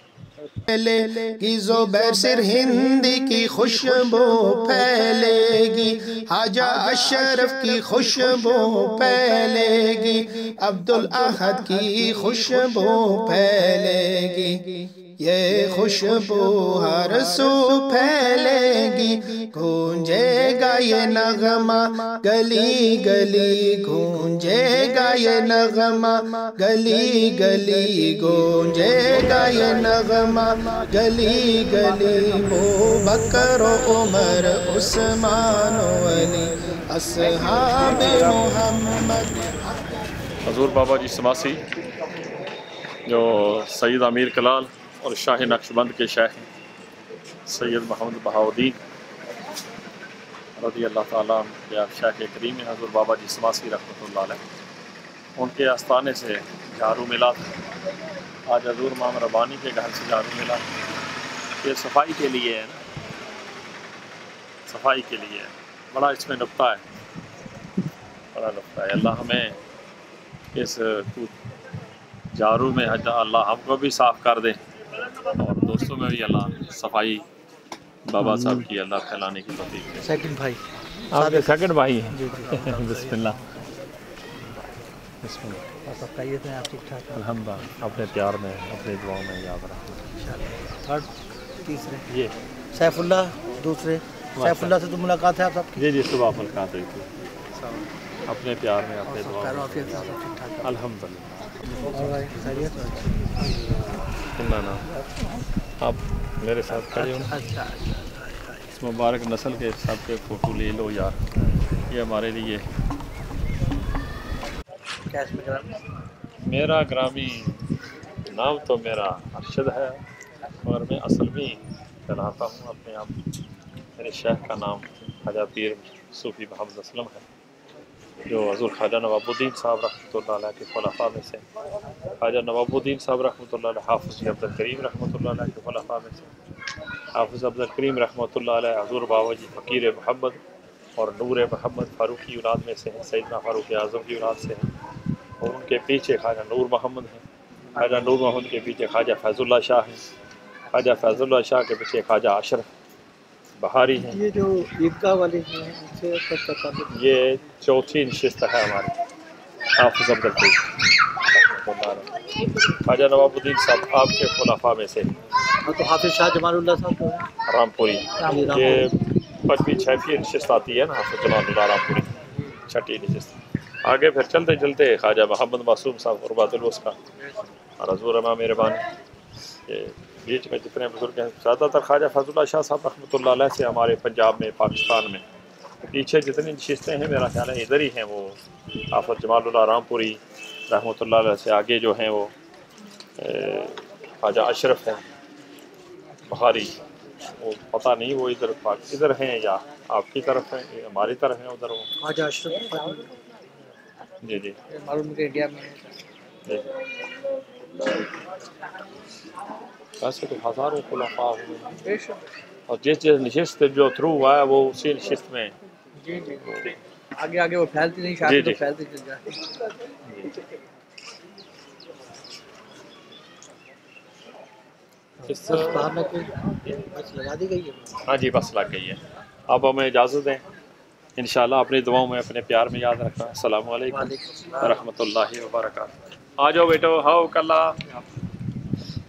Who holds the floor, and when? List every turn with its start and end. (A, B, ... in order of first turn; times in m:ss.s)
0:00.7-0:14.7 A
0:15.2-0:40.0 A
0:40.4-0:41.6 B
0:43.1-0:46.5 B
0:47.5-0:48.8 B
0:50.6-0:54.4 B
0:55.4-0:57.5 B
0:58.5-1:00.6 B
1:01.6-1:02.8 B
1:04.7-1:06.8 B
1:08.4-1:09.6 B
1:10.5-1:11.3 B
1:12.4-1:14.6 B
1:15.3-1:17.2 B
1:18.1-1:20.1 B
1:18.2-1:18.6 C
1:20.0-1:20.6 C
1:21.1-1:23.4 B
1:21.1-1:21.5 C
1:22.1-1:23.4 C
1:25.2-1:25.7 B
1:25.8-1:27.2 C
1:27.1-1:30.1 B
1:30.2-1:31.1 C
1:31.6-1:32.1 C
1:32.7-1:35.8 C
1:34.4-1:34.8 B
1:35.8-1:37.4 B
1:37.6-1:37.9 C
1:38.2-1:42.4 B
1:39.1-1:40.7 C
1:41.8-1:43.5 C
1:44.4-1:44.8 B
1:45.8-1:47.4 B
1:46.8-1:48.6 C
1:48.7-1:51.2 B
1:51.9-1:52.6 B
1:55.1-1:55.8 C
1:56.5-1:57.6 B
1:58.3-2:00.0 B
2:00.6-2:03.1 B
2:04.0-2:07.2 B
2:08.3-2:11.4 B
2:12.2-2:16.3 B
2:17.2-2:20.4 B
2:21.0-2:24.7 B
2:25.4-2:27.2 B
2:27.7-2:28.2 C
2:27.8-2:30.0 B
2:30.7-2:32.7 B
2:33.6-2:34.2 B
2:34.0-2:36.9 C
2:36.9-2:38.9 B
2:39.8-2:40.7 B
2:41.4-2:42.1 B
2:42.8-2:45.1 B
2:45.7-2:47.3 C
2:47.5-2:48.9 B
2:48.2-2:48.9 C
2:49.4-2:52.1 B
2:52.7-2:57.0 B
2:57.8-2:58.8 B
2:59.7-3:05.2 B
3:05.8-3:08.4 B
3:08.9-3:12.3 B
3:13.2-3:15.0 B
3:16.3-3:21.9 B
3:22.0-3:23.1 C
3:24.2-3:24.6 B
3:24.7-3:25.9 C
3:30.0-3:31.8 B
3:31.8-3:32.2 C
3:32.7-3:35.6 B
3:36.0-3:36.4 C
3:36.4-3:36.7 B
3:37.2-3:39.6 C
3:38.2-3:38.6 B
3:40.1-3:40.3 B
3:45.2-3:48.0 C
3:45.3-3:45.9 B
3:48.0-3:50.4 B
3:51.2-3:58.0 B
3:53.9-3:54.8 C